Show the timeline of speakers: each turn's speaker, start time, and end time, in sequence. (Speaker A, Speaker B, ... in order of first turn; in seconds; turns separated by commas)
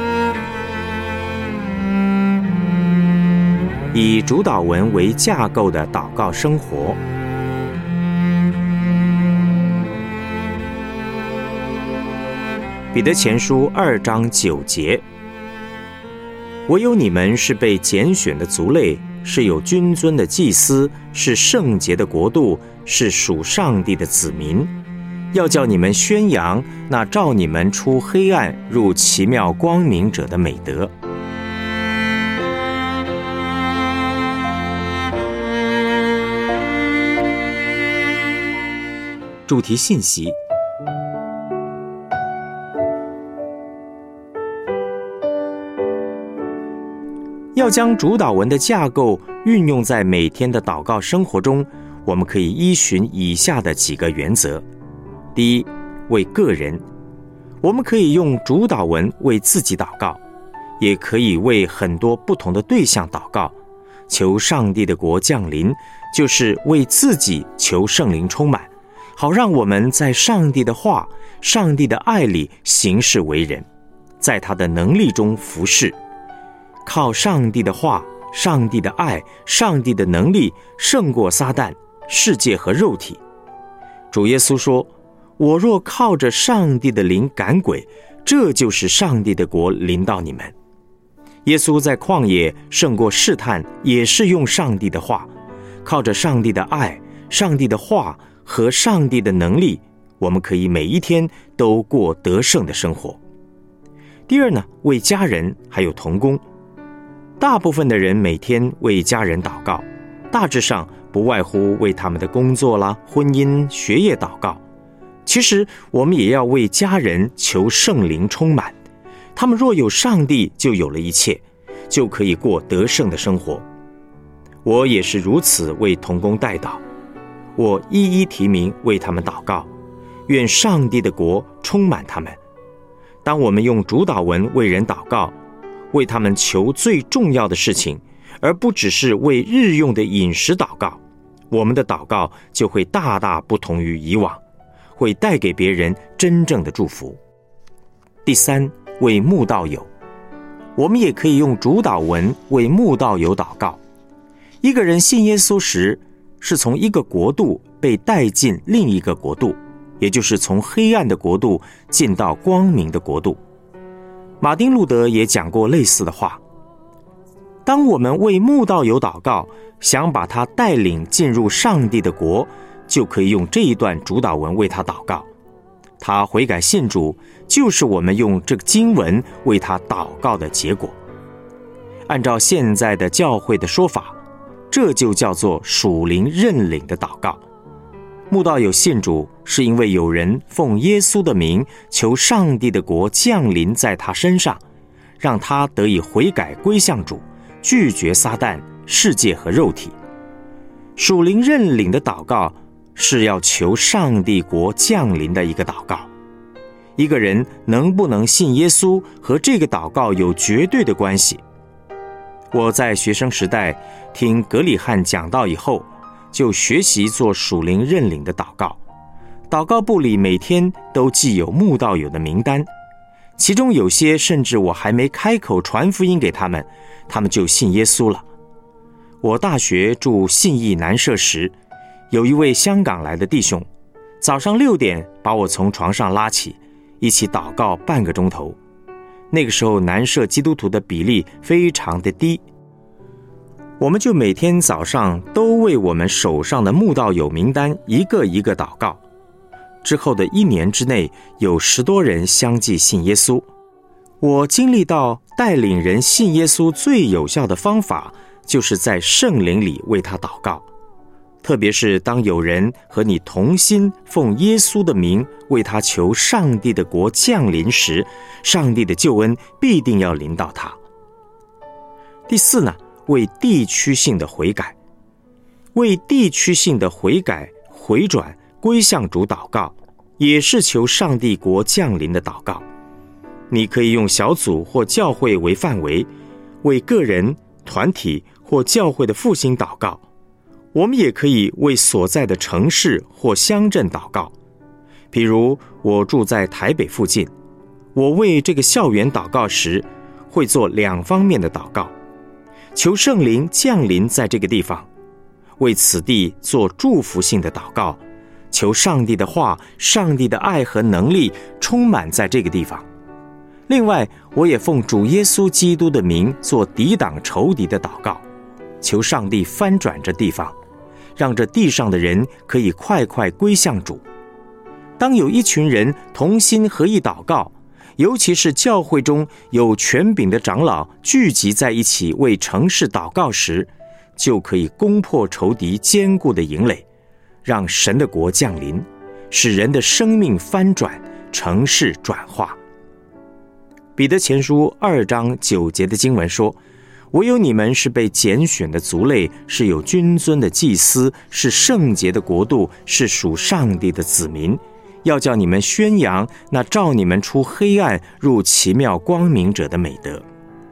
Speaker A: 3.9-7.0, Speaker A: 12.9-15.0, Speaker A: 16.7-24.7, Speaker A: 25.3-30.9, Speaker A: 39.5-40.3, Speaker A: 47.5-54.6, Speaker A: 55.3-56.8, Speaker A: 57.6-60.2, Speaker A: 60.8-63.5, Speaker A: 64.1-73.7, Speaker A: 74.2-75.9, Speaker A: 76.8-83.2, Speaker A: 84.1-90.5, Speaker A: 91.4-95.3, Speaker A: 95.8-103.2, Speaker A: 104.3-106.4, Speaker A: 107.4-114.6, Speaker A: 115.2-118.7, Speaker A: 119.3-123.6, Speaker A: 124.6-126.8, Speaker A: 127.5-129.7, Speaker A: 130.3-132.4, Speaker A: 133.2-135.3, Speaker A: 135.9-144.4, Speaker A: 144.9-147.2, Speaker A: 148.2-149.9, Speaker A: 150.8-153.8, Speaker A: 154.6-163.4, Speaker A: 164.4-166.4, Speaker A: 167.7-175.3, Speaker A: 176.0-181.0, Speaker A: 182.1-184.2, Speaker A: 184.7-187.4, Speaker A: 188.3-194.6, Speaker A: 195.2-199.9, Speaker A: 201.0-206.1, Speaker A: 207.0-211.4, Speaker A: 212.5-218.8, Speaker A: 219.5-222.7, Speaker A: 223.4-228.2, Speaker A: 229.2-231.5, Speaker A: 232.1-233.7, Speaker A: 234.2-238.6, Speaker A: 239.3-242.4, Speaker A: 243.8-249.0, Speaker A: 249.8-253.4, Speaker A: 254.2-260.6, Speaker A: 261.4-270.8, Speaker A: 272.3-274.8, Speaker A: 275.7-282.6, Speaker A: 283.5-286.1, Speaker A: 286.6-290.0, Speaker A: 290.7-294.3, Speaker A: 295.1-297.3, Speaker A: 297.9-301.9, Speaker A: 302.7-304.9, Speaker A: 305.6-308.0, Speaker A: 308.5-312.9, Speaker A: 313.7-318.2, Speaker A: 318.8-320.6, Speaker A: 321.2-324.0, Speaker A: 325.0-336.8, Speaker A: 337.4-342.6, Speaker A: 343.9-346.6, Speaker A: 347.1-360.2